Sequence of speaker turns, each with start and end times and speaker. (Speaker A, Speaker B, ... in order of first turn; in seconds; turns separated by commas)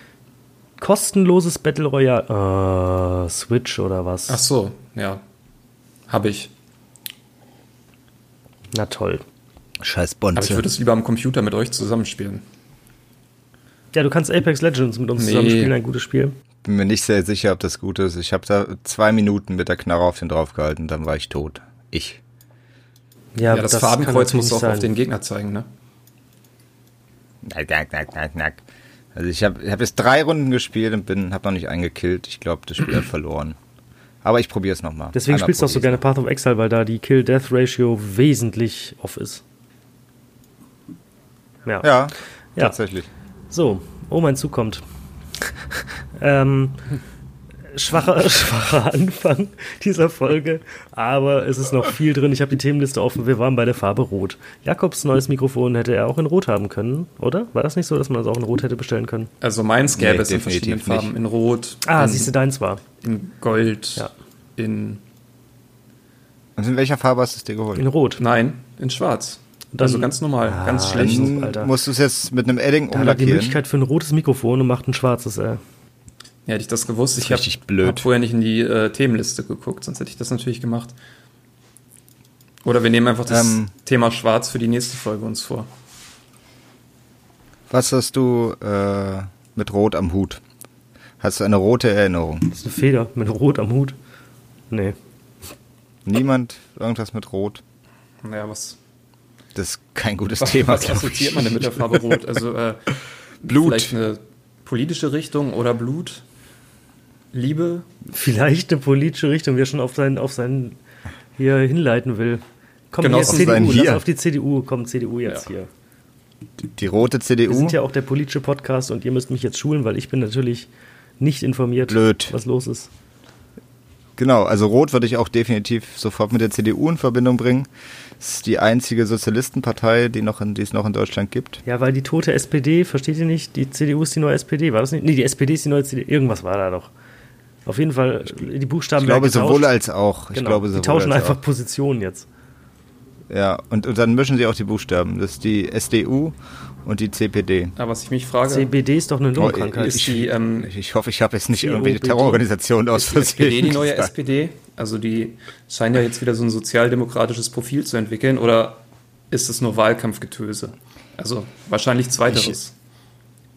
Speaker A: 0.8-4.4, Speaker B: 4.3-5.2, Speaker B: 6.1-6.5, Speaker A: 8.7-9.2, Speaker C: 9.8-10.7, Speaker B: 10.3-12.4, Speaker A: 13.9-16.4, Speaker B: 15.2-15.7, Speaker C: 16.6-22.2, Speaker A: 23.4-24.9, Speaker B: 23.5-25.7, Speaker C: 27.4-28.6, Speaker C: 29.1-33.6, Speaker C: 34.2-36.0, Speaker A: 35.1-39.4, Speaker C: 41.8-43.1, Speaker A: 43.5-44.8, Speaker A: 45.4-46.8, Speaker A: 47.7-59.3, Speaker B: 59.4-62.3, Speaker C: 59.9-61.1, Speaker A: 61.9-62.8, Speaker B: 63.0-65.0, Speaker C: 66.6-67.8, Speaker A: 67.8-68.2, Speaker B: 68.2-71.3, Speaker A: 69.8-71.7, Speaker C: 70.9-73.6, Speaker A: 72.9-75.6, Speaker B: 76.5-80.9, Speaker C: 77.2-78.1, Speaker B: 82.6-85.7, Speaker C: 83.3-83.7, Speaker C: 87.7-90.4, Speaker C: 91.2-92.5, Speaker A: 92.5-94.0, Speaker A: 94.7-95.0, Speaker C: 96.1-97.6, Speaker B: 98.2-98.8, Speaker C: 99.5-102.2, Speaker B: 100.4-102.9, Speaker B: 103.4-106.2, Speaker C: 103.5-103.9, Speaker B: 107.3-107.9, Speaker A: 108.1-110.8, Speaker A: 111.4-115.7, Speaker B: 113.0-113.8, Speaker C: 113.2-114.0, Speaker C: 116.6-117.8, Speaker A: 117.5-120.7, Speaker A: 121.2-122.9, Speaker C: 121.9-122.3, Speaker C: 124.2-127.7, Speaker C: 128.2-131.6, Speaker A: 131.7-136.9, Speaker A: 137.7-139.7, Speaker C: 139.0-141.4, Speaker A: 140.3-142.3, Speaker C: 143.3-147.7, Speaker B: 147.8-148.7, Speaker A: 148.5-150.1, Speaker C: 149.4-154.1, Speaker B: 149.7-150.7, Speaker A: 151.6-152.4, Speaker B: 152.9-162.7, Speaker C: 162.3-162.6